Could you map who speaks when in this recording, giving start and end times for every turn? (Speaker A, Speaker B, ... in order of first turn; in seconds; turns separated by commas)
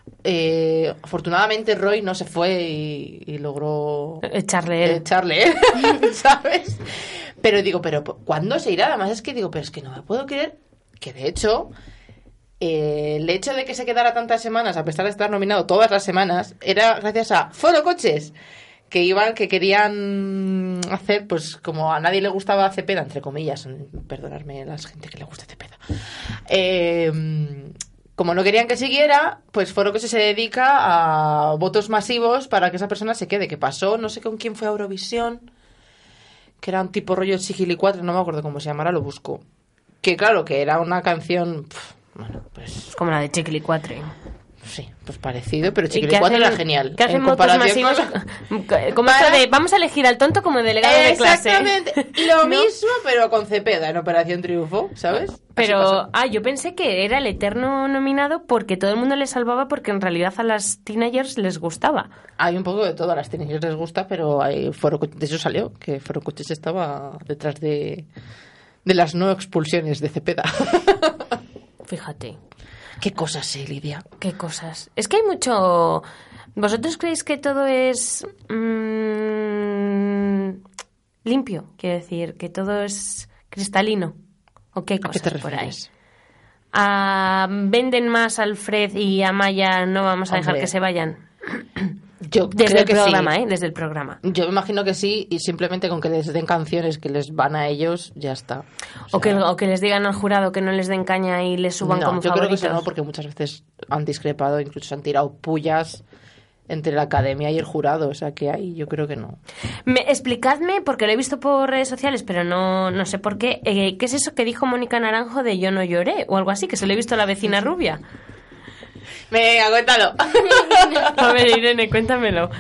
Speaker A: 0.2-4.2, Speaker B: 4.2-5.0, Speaker A: 4.8-11.7, Speaker A: 12.6-18.4, Speaker A: 18.9-25.8, Speaker A: 26.5-35.5, Speaker A: 36.6-39.4, Speaker A: 40.0-42.9, Speaker B: 42.9-44.1, Speaker A: 44.6-48.2, Speaker B: 45.9-52.7, Speaker A: 49.0-49.5, Speaker A: 50.8-56.0, Speaker B: 55.6-62.1, Speaker A: 62.4-68.1, Speaker A: 68.8-71.4, Speaker B: 71.9-72.4, Speaker A: 73.0-74.0, Speaker B: 74.2-76.1, Speaker B: 76.6-80.6, Speaker B: 81.2-84.2, Speaker B: 84.7-85.8, Speaker A: 85.0-85.9, Speaker B: 86.7-92.0, Speaker A: 90.3-90.7, Speaker A: 92.2-93.3, Speaker B: 92.5-94.2, Speaker A: 94.2-99.4, Speaker B: 99.1-102.9, Speaker A: 101.8-106.0, Speaker A: 106.7-109.4, Speaker B: 109.9-118.0, Speaker A: 119.3-121.2, Speaker B: 121.1-122.5